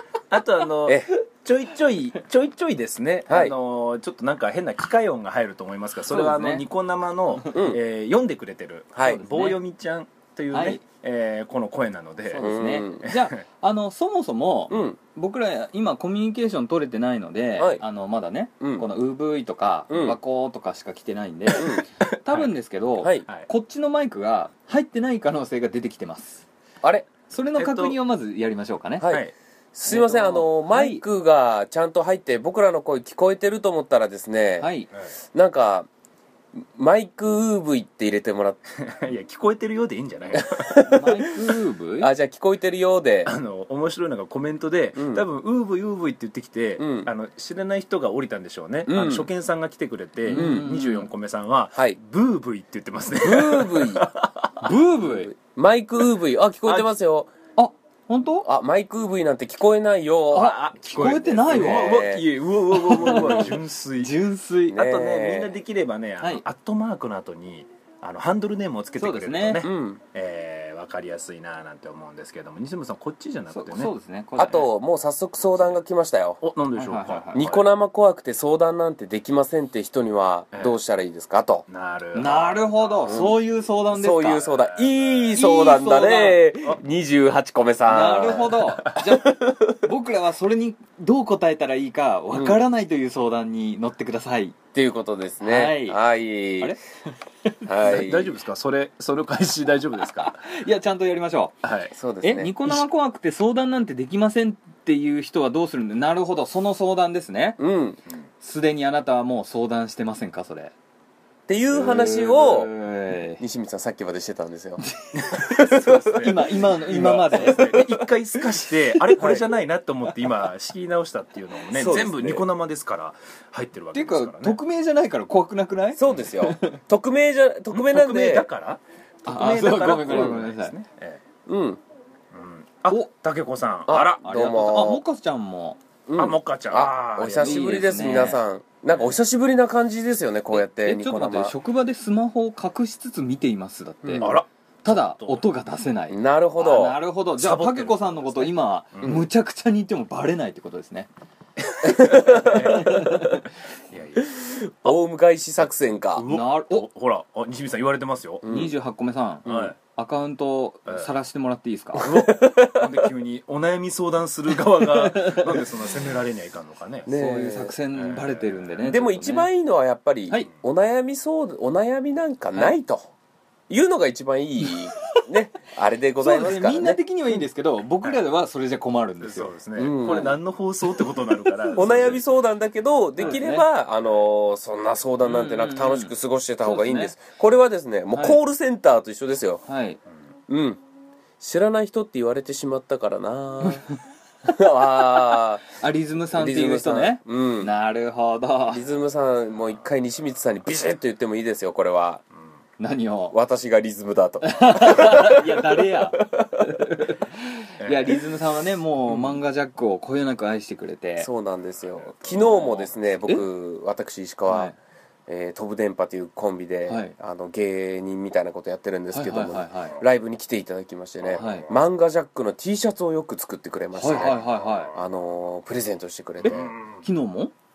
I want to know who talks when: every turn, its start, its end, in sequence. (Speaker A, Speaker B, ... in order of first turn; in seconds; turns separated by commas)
Speaker A: 0.3-12.5, Speaker B: 3.3-3.5, Speaker C: 6.1-6.7, Speaker B: 7.5-7.8, Speaker B: 8.9-9.2, Speaker C: 9.1-9.6, Speaker C: 10.5-10.8, Speaker C: 12.3-26.4, Speaker B: 12.4-13.0, Speaker A: 13.0-13.4, Speaker B: 14.7-15.0, Speaker B: 18.6-18.9, Speaker B: 19.9-20.2, Speaker B: 21.6-21.8, Speaker A: 22.2-22.5, Speaker B: 23.0-23.2, Speaker B: 26.8-27.1, Speaker C: 27.3-29.2, Speaker A: 27.6-28.0, Speaker B: 29.7-34.7, Speaker C: 29.9-31.0, Speaker C: 34.6-34.9, Speaker B: 35.3-35.9, Speaker B: 36.6-38.6, Speaker A: 38.7-40.8, Speaker B: 40.3-41.0, Speaker C: 40.8-42.1, Speaker B: 42.0-43.3, Speaker A: 43.2-54.7, Speaker B: 45.0-45.2, Speaker B: 46.8-47.1, Speaker B: 48.9-49.3, Speaker C: 50.3-51.1, Speaker B: 50.3-50.7, Speaker B: 53.1-54.1, Speaker C: 54.6-55.3, Speaker B: 55.0-57.3, Speaker A: 56.6-56.9, Speaker C: 57.5-58.5, Speaker B: 58.4-63.6, Speaker C: 60.3-62.0, Speaker A: 60.3-64.2, Speaker C: 62.7-64.8, Speaker B: 64.7-65.5, Speaker A: 64.7-73.9, Speaker C: 69.0-69.7, Speaker B: 69.6-70.0, Speaker C: 73.5-74.7, Speaker B: 74.4-76.4, Speaker A: 76.4-77.6, Speaker C: 76.8-77.6, Speaker B: 77.3-81.7, Speaker A: 81.7-83.3, Speaker C: 82.1-84.4, Speaker B: 83.1-83.4, Speaker B: 83.9-88.5, Speaker A: 84.3-85.5, Speaker C: 85.3-86.4, Speaker C: 87.9-94.5, Speaker B: 89.2-89.9, Speaker B: 92.3-92.6, Speaker B: 94.7-96.8, Speaker C: 95.4-96.0, Speaker B: 97.6-98.3, Speaker A: 97.8-100.5, Speaker C: 100.2-101.5, Speaker A: 101.6-101.9, Speaker B: 101.9-102.8, Speaker C: 102.2-107.6, Speaker B: 107.6-108.0, Speaker C: 108.4-110.7, Speaker B: 111.5-112.7, Speaker C: 111.7-113.4, Speaker B: 113.4-114.8, Speaker C: 114.8-115.1, Speaker A: 115.1-124.6, Speaker B: 115.3-118.1, Speaker C: 116.1-117.7, Speaker C: 118.9-119.4, Speaker B: 121.7-122.4, Speaker C: 123.9-126.8, Speaker B: 126.0-128.5, Speaker A: 127.7-131.2, Speaker C: 129.2-130.7, Speaker B: 130.1-130.4, Speaker B: 131.4-131.8, Speaker A: 132.3-134.3, Speaker B: 133.9-135.0, Speaker C: 133.9-135.8, Speaker B: 136.1-141.5, Speaker A: 136.2-138.0, Speaker C: 137.4-138.4, Speaker C: 140.5-151.1, Speaker B: 144.0-144.3, Speaker A: 144.2-145.4, Speaker B: 146.1-147.0, Speaker A: 147.3-149.2, Speaker A: 151.7-153.1, Speaker B: 151.8-153.3, Speaker C: 152.1-153.4, Speaker A: 153.9-154.9, Speaker B: 154.2-156.3, Speaker A: 156.1-158.4, Speaker C: 156.3-156.8, Speaker B: 158.4-158.7, Speaker C: 158.4-162.1, Speaker B: 159.4-159.7, Speaker A: 159.4-159.8, Speaker B: 162.0-163.1, Speaker A: 162.0-167.1, Speaker C: 165.0-165.6, Speaker B: 167.1-167.7, Speaker C: 167.1-169.5, Speaker A: 167.9-168.8, Speaker B: 168.8-173.1, Speaker B: 173.7-177.0, Speaker C: 174.6-175.2, Speaker C: 176.2-180.3, Speaker A: 179.2-182.2, Speaker B: 179.8-180.3, Speaker C: 181.0-182.1, Speaker B: 181.7-189.6, Speaker C: 183.2-183.7, Speaker C: 185.2-187.1, Speaker C: 188.1-188.4, Speaker C: 189.7-190.0, Speaker B: 190.5-190.8, Speaker B: 191.4-193.8, Speaker B: 194.4-195.6, Speaker C: 195.8-198.8, Speaker B: 196.3-197.7, Speaker B: 198.7-202.2, Speaker C: 202.8-203.3, Speaker B: 203.3-206.8, Speaker C: 204.4-211.3, Speaker A: 207.8-208.2, Speaker B: 209.1-209.4, Speaker B: 211.2-214.7, Speaker A: 212.2-212.8, Speaker C: 212.8-213.4, Speaker C: 214.5-214.8, Speaker B: 215.3-224.4, Speaker C: 216.9-217.1, Speaker C: 219.1-220.0, Speaker C: 221.3-221.7, Speaker C: 223.9-224.9, Speaker B: 224.9-226.7, Speaker C: 226.4-227.5, Speaker A: 226.4-227.0